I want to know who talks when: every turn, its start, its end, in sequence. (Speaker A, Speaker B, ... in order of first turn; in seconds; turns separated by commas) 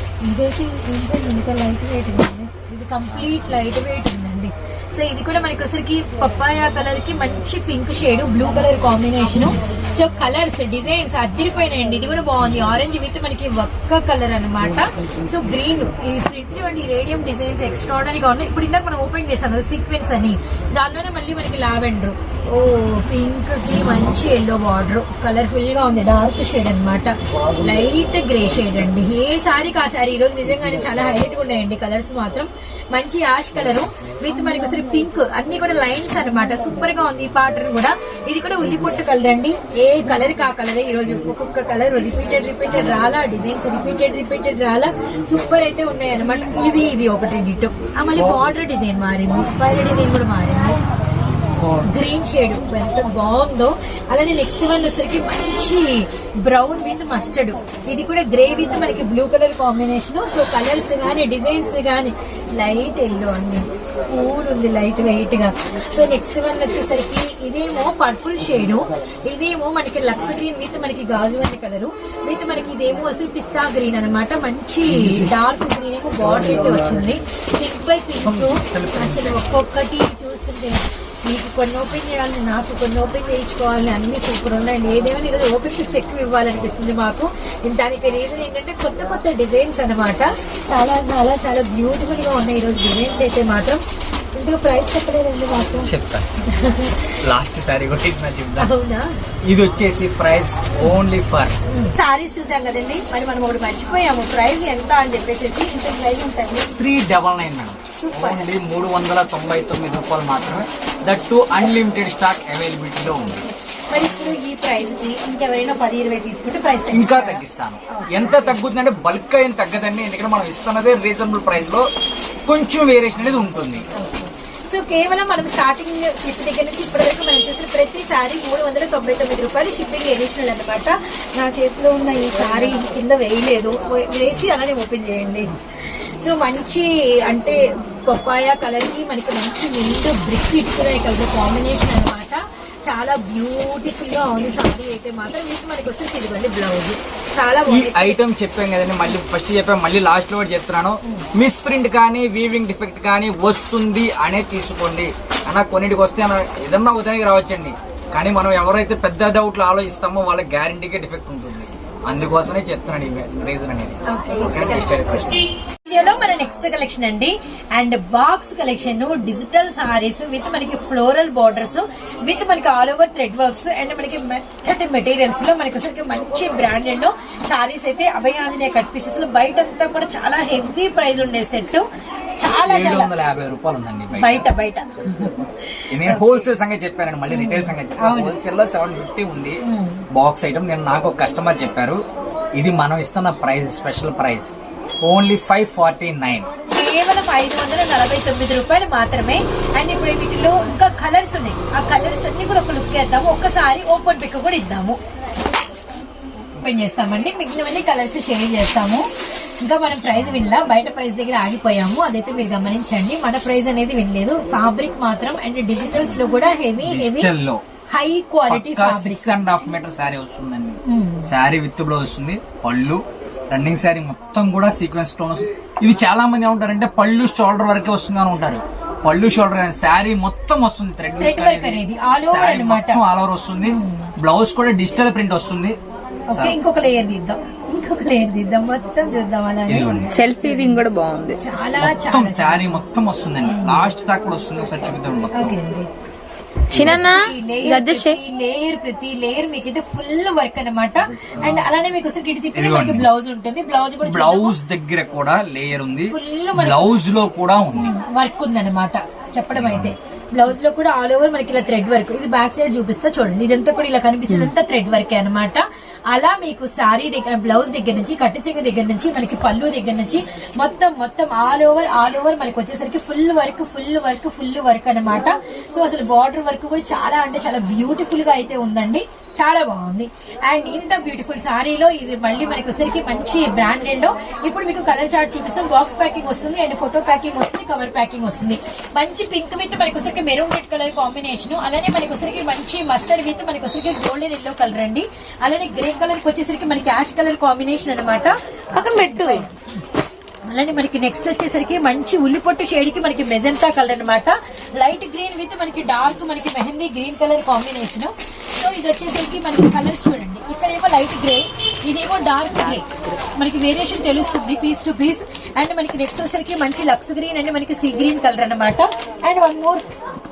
Speaker A: 0.2-50.8, Speaker A: 51.8-93.8, Speaker B: 74.9-75.3, Speaker B: 78.2-79.7, Speaker A: 94.3-95.9, Speaker B: 95.8-96.3, Speaker A: 96.4-97.2, Speaker B: 97.2-98.7, Speaker A: 98.6-99.1, Speaker B: 99.5-101.6, Speaker A: 101.7-106.7, Speaker B: 106.8-113.5, Speaker A: 107.9-108.5, Speaker A: 113.9-118.5, Speaker B: 116.9-121.9, Speaker B: 122.5-123.8, Speaker A: 124.0-148.2, Speaker B: 147.7-165.4, Speaker A: 164.1-165.3, Speaker A: 165.8-181.9, Speaker A: 182.4-183.1, Speaker B: 182.6-184.5, Speaker A: 184.1-186.5, Speaker B: 185.9-189.6, Speaker A: 187.3-188.4, Speaker A: 189.6-190.0, Speaker B: 190.1-192.0, Speaker B: 192.5-194.5, Speaker B: 195.0-196.5, Speaker A: 196.7-205.0, Speaker A: 206.6-209.1, Speaker A: 209.6-217.3, Speaker B: 216.8-217.6, Speaker A: 217.9-219.3, Speaker B: 218.5-235.8, Speaker A: 220.9-221.3, Speaker A: 231.2-233.0, Speaker A: 233.6-234.1, Speaker A: 236.3-240.8, Speaker B: 239.7-240.1, Speaker C: 240.1-241.4, Speaker A: 241.4-242.8, Speaker B: 241.8-245.6, Speaker A: 243.5-243.8, Speaker A: 245.3-245.9, Speaker C: 246.7-248.2, Speaker B: 246.7-247.1, Speaker A: 246.8-254.5, Speaker B: 251.4-251.7, Speaker B: 252.5-253.1, Speaker B: 254.0-257.9, Speaker A: 256.1-257.0, Speaker A: 257.7-299.8, Speaker B: 259.5-260.0, Speaker A: 300.5-319.9, Speaker C: 312.5-313.2